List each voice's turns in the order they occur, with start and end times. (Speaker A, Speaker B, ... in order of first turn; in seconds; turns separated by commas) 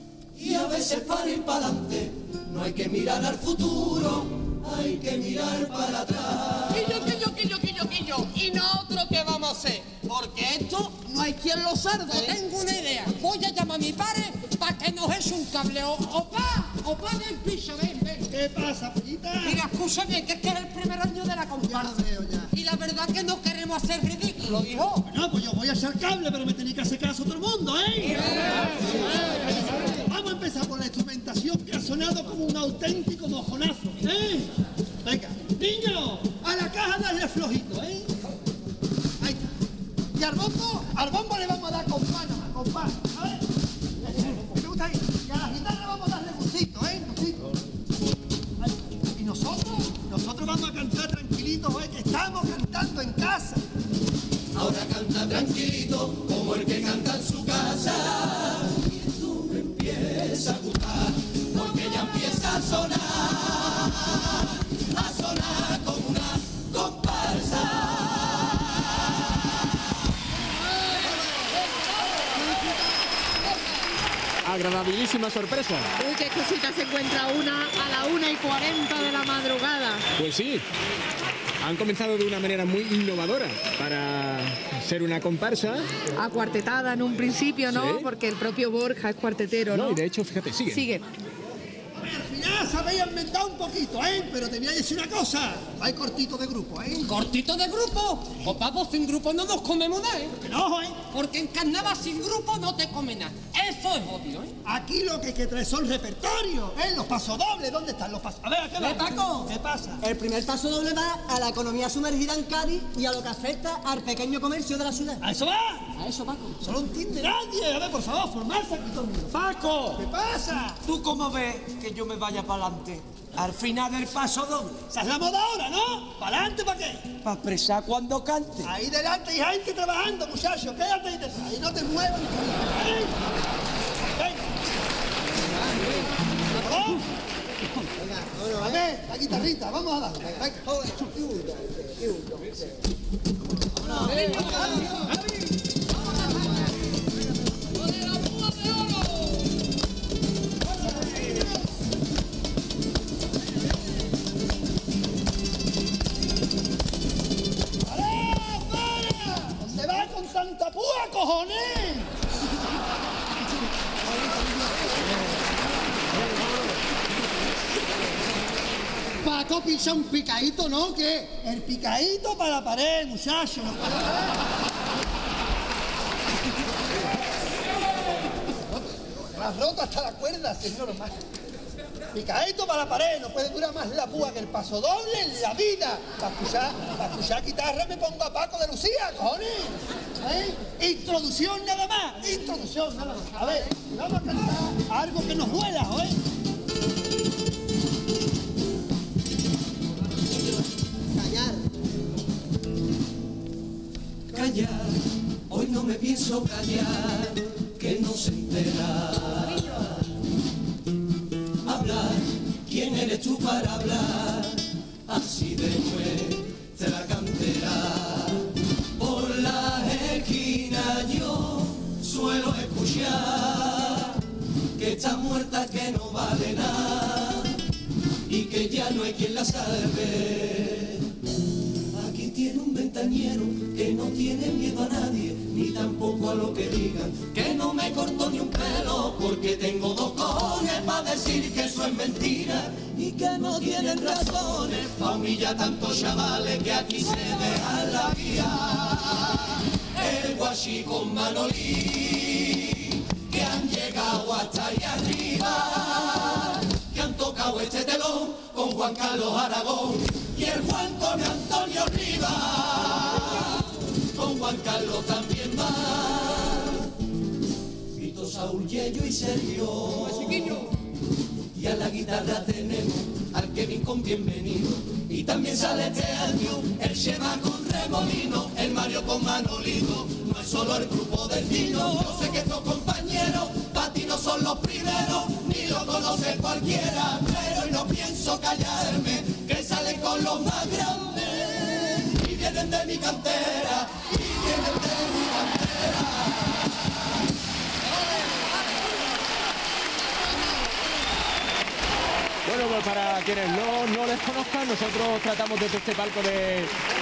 Speaker A: 0.3-6.8, Speaker B: 6.8-11.1, Speaker C: 6.9-7.7, Speaker C: 8.3-12.3, Speaker B: 11.8-18.3, Speaker D: 18.3-19.6, Speaker B: 19.4-25.0, Speaker D: 21.6-22.5, Speaker D: 25.1-34.5, Speaker D: 35.0-38.1, Speaker D: 39.2-39.5, Speaker D: 40.1-43.5, Speaker D: 44.0-47.6, Speaker D: 48.6-53.6, Speaker A: 54.5-69.0, Speaker B: 71.4-71.9, Speaker E: 74.4-75.9, Speaker F: 76.0-80.0, Speaker E: 80.2-80.6, Speaker E: 81.6-85.9, Speaker F: 86.2-90.0, Speaker E: 87.7-88.1, Speaker E: 89.7-90.8, Speaker F: 90.7-91.0, Speaker D: 91.9-97.2, Speaker B: 97.0-100.3, Speaker D: 100.4-101.0, Speaker B: 101.1-104.5, Speaker D: 104.6-110.0, Speaker B: 108.8-109.4, Speaker G: 110.0-115.2, Speaker D: 115.2-116.0, Speaker G: 116.0-116.6, Speaker D: 116.6-119.4, Speaker H: 119.3-120.0, Speaker D: 120.0-120.8, Speaker H: 120.8-124.8, Speaker D: 124.9-127.2, Speaker H: 127.2-128.7, Speaker D: 128.6-133.2, Speaker D: 134.1-134.5, Speaker G: 135.5-136.1, Speaker D: 136.5-137.1, Speaker G: 137.9-138.8, Speaker D: 138.6-140.6, Speaker G: 140.4-142.8, Speaker B: 144.0-145.1, Speaker D: 144.5-144.8, Speaker D: 151.0-151.4, Speaker D: 157.8-162.1, Speaker D: 164.3-165.0, Speaker D: 169.2-174.3, Speaker D: 178.9-181.2, Speaker D: 182.1-196.2, Speaker G: 201.1-201.6, Speaker A: 204.3-210.0, Speaker A: 211.6-224.2, Speaker A: 224.8-227.6, Speaker A: 228.3-231.1, Speaker A: 231.9-266.9, Speaker A: 267.9-270.6, Speaker A: 271.5-296.8, Speaker B: 298.0-298.8, Speaker E: 302.4-306.7